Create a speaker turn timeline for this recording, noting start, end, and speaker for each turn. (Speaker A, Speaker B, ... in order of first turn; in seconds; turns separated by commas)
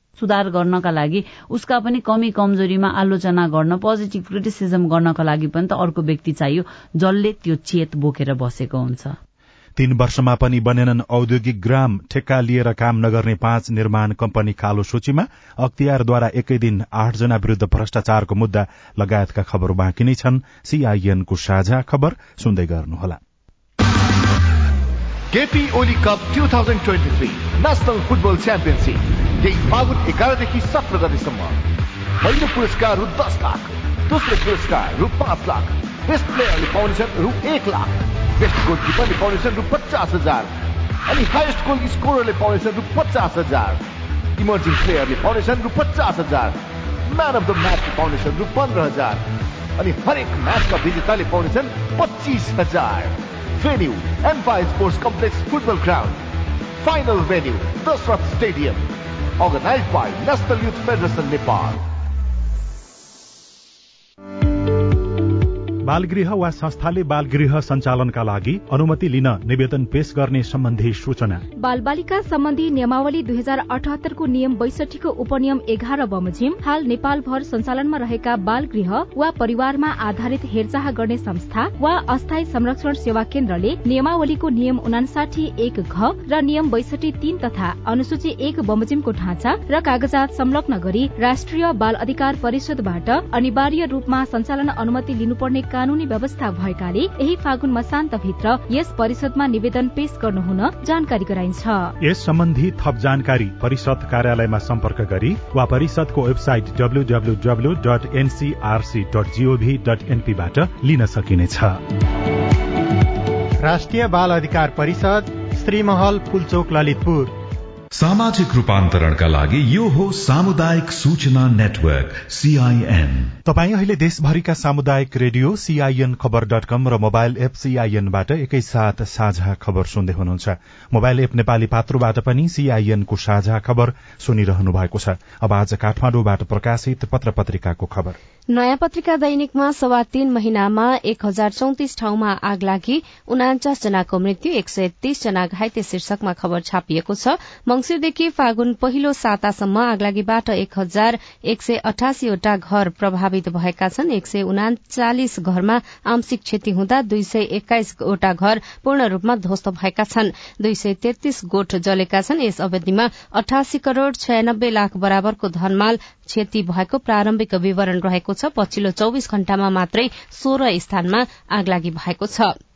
Speaker A: 0.2-9.2, Speaker B: 9.8-23.2, Speaker C: 25.3-31.6, Speaker C: 32.2-40.5, Speaker C: 41.1-43.8, Speaker C: 44.4-49.2, Speaker C: 49.8-56.2, Speaker C: 56.8-58.8, Speaker C: 59.4-61.8, Speaker B: 65.9-71.4, Speaker D: 71.6-101.9, Speaker B: 102.0-111.8, Speaker E: 113.6-117.3, Speaker F: 117.9-123.3, Speaker B: 123.5-138.2, Speaker G: 138.5-172.5